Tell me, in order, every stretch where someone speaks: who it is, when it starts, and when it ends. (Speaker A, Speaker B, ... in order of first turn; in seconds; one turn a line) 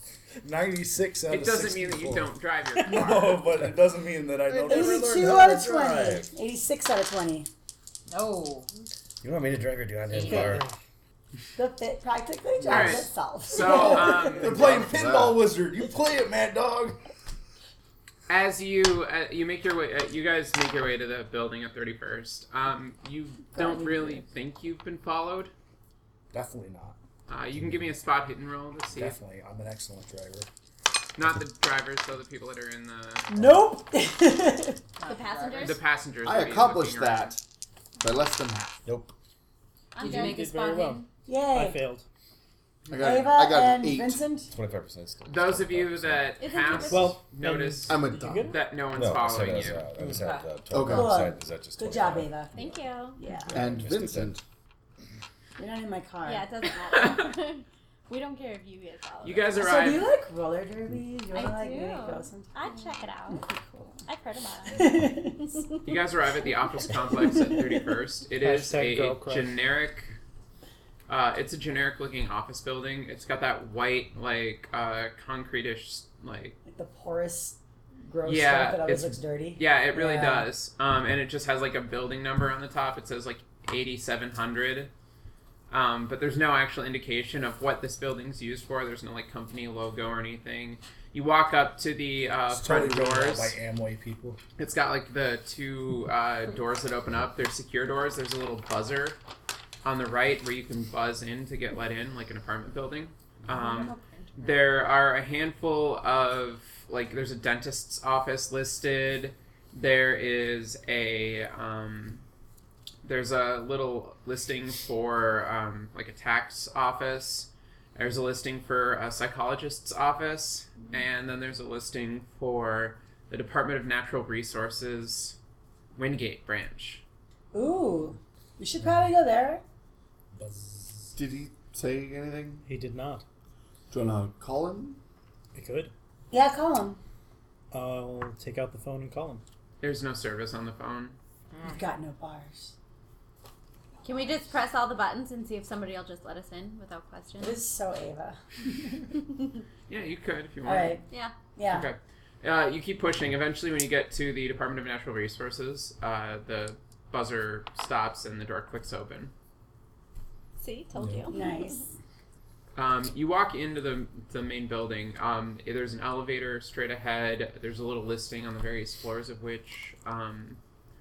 Speaker A: 0.4-5.5
Speaker B: 1.3-3.6
Speaker C: 4.5-6.3
Speaker D: 4.7-7.5
Speaker E: 8.1-8.7
Speaker C: 9.2-10.7
Speaker E: 10.1-10.6
Speaker F: 10.3-10.7
Speaker D: 11.6-14.4
Speaker B: 12.7-14.6
Speaker G: 12.7-13.0
Speaker A: 13.5-17.0
Speaker G: 14.4-15.4
Speaker B: 18.3-25.5
Speaker D: 23.5-24.2
Speaker A: 26.3-27.0
Speaker B: 27.3-29.2
Speaker A: 27.6-27.9
Speaker A: 28.9-30.5
Speaker B: 31.1-33.3
Speaker D: 33.3-34.8
Speaker E: 35.0-35.7
Speaker H: 35.0-35.8
Speaker B: 35.6-37.3
Speaker G: 36.2-37.4
Speaker G: 38.0-38.9
Speaker C: 38.9-39.1
Speaker H: 40.0-40.5
Speaker E: 40.0-41.1
Speaker F: 40.0-42.1
Speaker D: 41.3-41.8
Speaker G: 42.9-44.2
Speaker D: 43.0-44.5
Speaker C: 44.5-46.3
Speaker B: 45.3-49.9
Speaker H: 46.4-47.2
Speaker F: 46.9-48.6
Speaker G: 47.9-48.5
Speaker C: 48.9-52.8
Speaker E: 50.1-50.5
Speaker G: 50.7-51.1
Speaker D: 50.9-52.5
Speaker H: 52.5-53.2
Speaker D: 53.2-53.7
Speaker C: 53.5-54.3
Speaker G: 53.5-54.4
Speaker D: 55.6-56.5
Speaker H: 56.2-59.6
Speaker B: 56.8-57.4
Speaker B: 59.2-60.1
Speaker D: 59.6-62.6
Speaker H: 61.3-63.5
Speaker D: 63.3-64.0
Speaker H: 64.0-65.0
Speaker D: 64.7-65.7
Speaker H: 65.5-65.8
Speaker B: 65.8-70.2
Speaker D: 67.3-67.7
Speaker F: 68.4-69.5
Speaker B: 71.1-76.6
Speaker D: 76.7-80.5
Speaker B: 78.2-84.9
Speaker B: 85.7-93.6
Speaker A: 92.5-94.4
Speaker B: 94.6-99.2
Speaker B: 99.8-112.2
Speaker E: 103.5-104.6
Speaker B: 113.0-125.4
Speaker B: 126.0-127.0
Speaker D: 127.5-129.6
Speaker A: 130.3-131.2
Speaker G: 131.2-132.7
Speaker F: 132.7-133.2
Speaker G: 133.9-135.0
Speaker F: 135.6-135.9
Speaker D: 136.3-137.0
Speaker F: 137.7-139.4
Speaker B: 139.8-141.2
Speaker E: 141.5-141.8
Speaker D: 141.7-142.7
Speaker H: 144.0-147.6
Speaker D: 147.4-148.4
Speaker B: 149.9-151.0
Speaker D: 150.7-151.0
Speaker D: 151.6-151.9
Speaker B: 151.7-159.3
Speaker H: 160.6-161.8
Speaker A: 161.0-161.3
Speaker D: 161.3-161.9
Speaker B: 162.8-170.6